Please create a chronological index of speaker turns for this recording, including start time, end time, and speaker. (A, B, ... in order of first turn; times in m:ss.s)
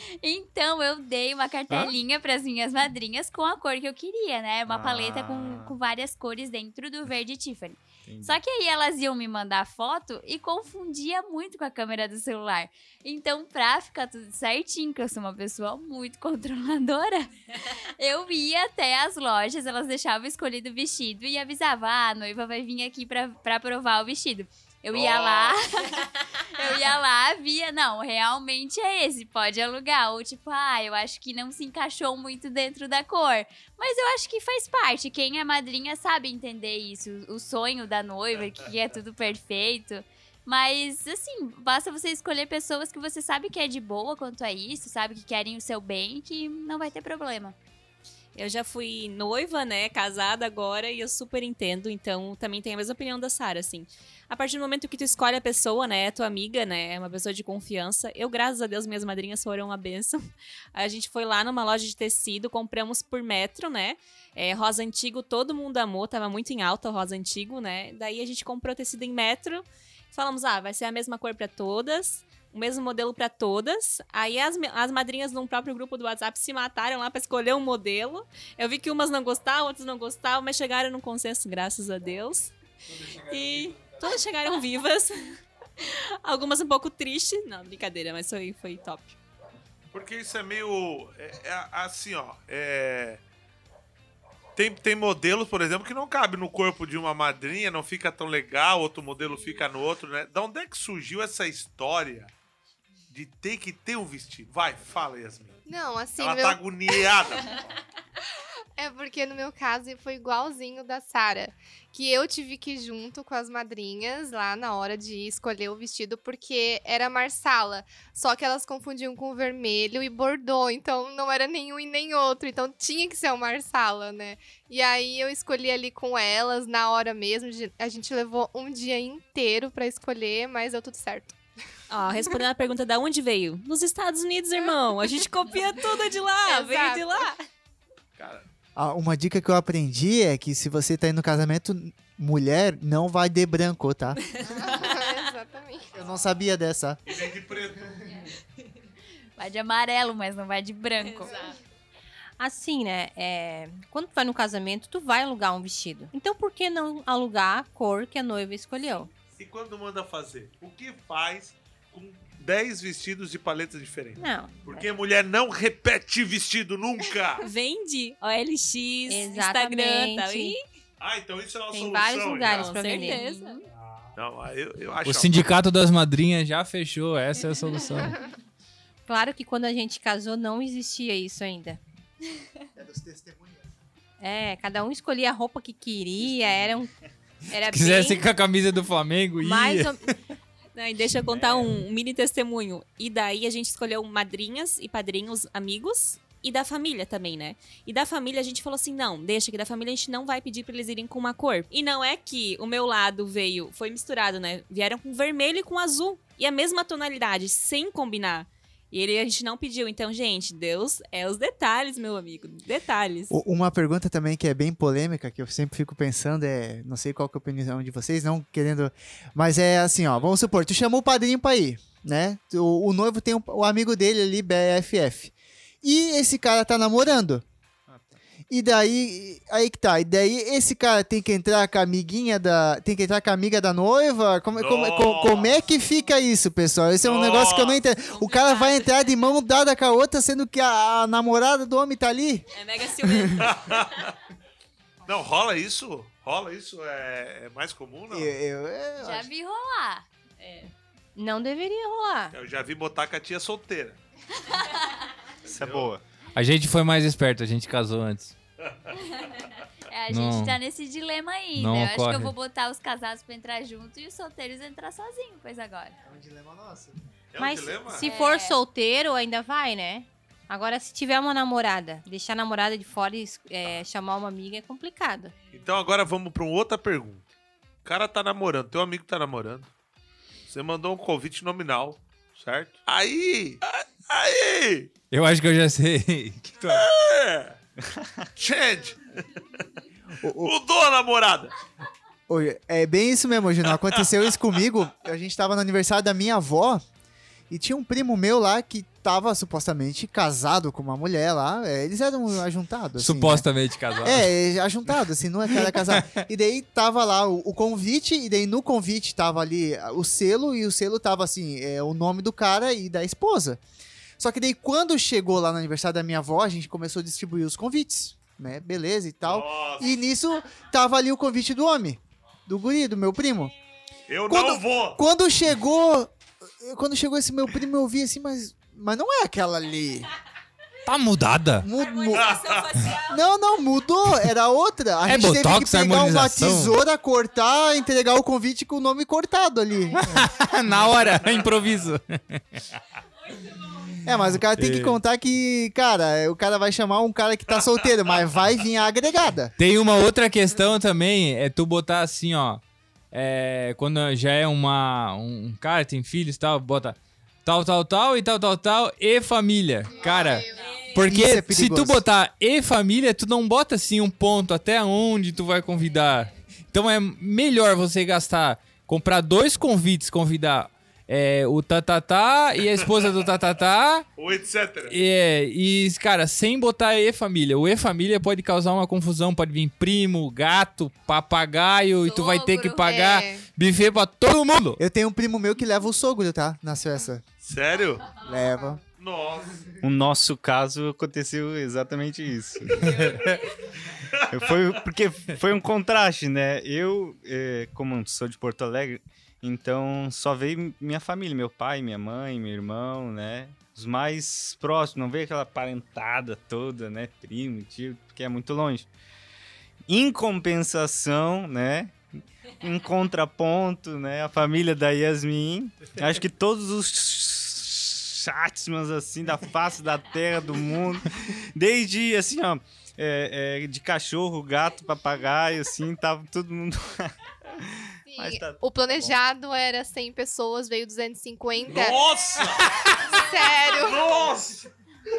0:00.2-0:47.6 A
0:04.7-0:05.8 B
0:08.1-0:08.4 C
0:24.9-0:25.6 D
0:38.3-0:38.7 D
0:48.4-1:00.2 E
1:00.8-1:22.5 E
1:23.0-1:23.9 C
1:23.1-1:29.2 E
1:29.9-1:33.2 D
1:34.6-1:42.3 D
1:43.1-1:45.6 D
1:45.7-1:47.0 F
1:46.2-1:47.5 D
1:48.8-2:11.4 F
2:11.9-2:17.5 E
2:16.4-2:17.2 F
2:18.2-2:18.5 D
2:18.8-2:24.2 G
2:24.5-2:24.9 E
2:24.5-2:26.0 F
2:25.9-2:27.0 G
2:27.1-2:28.2 D
2:29.4-2:31.6 A
2:31.0-2:31.5 E
2:32.4-2:39.1 H
2:39.4-2:47.4 D
2:44.2-2:44.9 H
2:47.4-2:50.6 E
2:49.1-2:50.5 H
2:51.0-2:52.8 D
2:51.7-2:53.5 H
2:52.6-2:53.6 E
2:53.0-2:53.6 A
2:54.2-2:55.4 D
2:55.0-2:58.2 C
2:59.1-3:01.8 H
3:02.8-3:03.7 G
3:04.2-3:06.9 H
3:06.2-3:06.9 B
3:07.5-3:08.2 H
3:07.7-3:10.2 C
3:09.4-3:10.1 H
3:10.8-3:33.3 E
3:11.2-3:11.8 B
3:33.3-3:47.4 G
3:47.9-3:48.2 B
3:48.5-4:02.4 G
3:54.6-3:55.6 D
3:57.0-3:57.8 D
3:58.0-3:59.1 E
4:02.5-4:03.8 E
4:03.0-4:03.4 G
4:03.4-4:04.1 D
4:05.1-4:08.4 D
4:08.1-4:09.3 G
4:09.0-4:10.0 A
4:10.4-4:10.7 E
4:11.2-4:12.4 H
4:12.3-4:14.0 D
4:15.5-4:15.9 D
4:15.5-4:16.0 B
4:16.4-4:18.3 C
4:18.6-4:18.9 D
4:19.9-4:26.0 A
4:20.1-4:20.6 C
4:21.6-4:22.4 C
4:26.0-4:27.0 G
4:27.3-4:28.1 D
4:27.4-4:35.4 H
4:27.9-4:28.6 A
4:35.5-4:37.3 D
4:37.8-4:39.7 D
4:40.5-4:44.9 D
4:45.1-4:46.9 C
4:46.7-4:47.6 D
4:48.4-4:49.4 D
4:50.2-4:50.6 G
4:50.4-4:51.5 D
4:52.3-4:56.8 G
4:57.5-5:03.5 G
5:03.0-5:04.3 C
5:04.0-5:13.6 G
5:05.6-5:06.2 C
5:14.2-5:23.5 G
5:19.2-5:20.0 D
5:24.1-5:25.0 D
5:24.3-5:30.1 G
5:30.9-5:31.7 C
5:31.6-5:40.3 G
5:31.8-5:33.2 E
5:32.1-5:32.6 D
5:35.0-5:36.8 C
5:40.0-5:42.6 C
5:44.0-5:49.5 G
5:44.6-5:45.0 C
5:49.6-6:14.1 C
5:59.9-6:00.8 F
6:00.5-6:01.1 E
6:01.0-6:02.0 G
6:14.2-6:15.0 D
6:14.9-6:24.8 C
6:22.0-6:23.0 A
6:22.9-6:23.4 F
6:24.8-6:27.2 G
6:27.4-6:28.1 D
6:28.2-6:28.8 G
6:29.0-6:29.7 D
6:29.8-6:33.0 B
6:32.9-6:33.4 C
6:34.3-6:48.9 B
6:49.9-6:52.0 B
6:52.6-7:09.2 B
7:08.1-7:12.1 F
7:11.7-7:12.8 D
7:12.6-7:13.0 C
7:13.0-7:14.2 F
7:13.8-7:14.6 D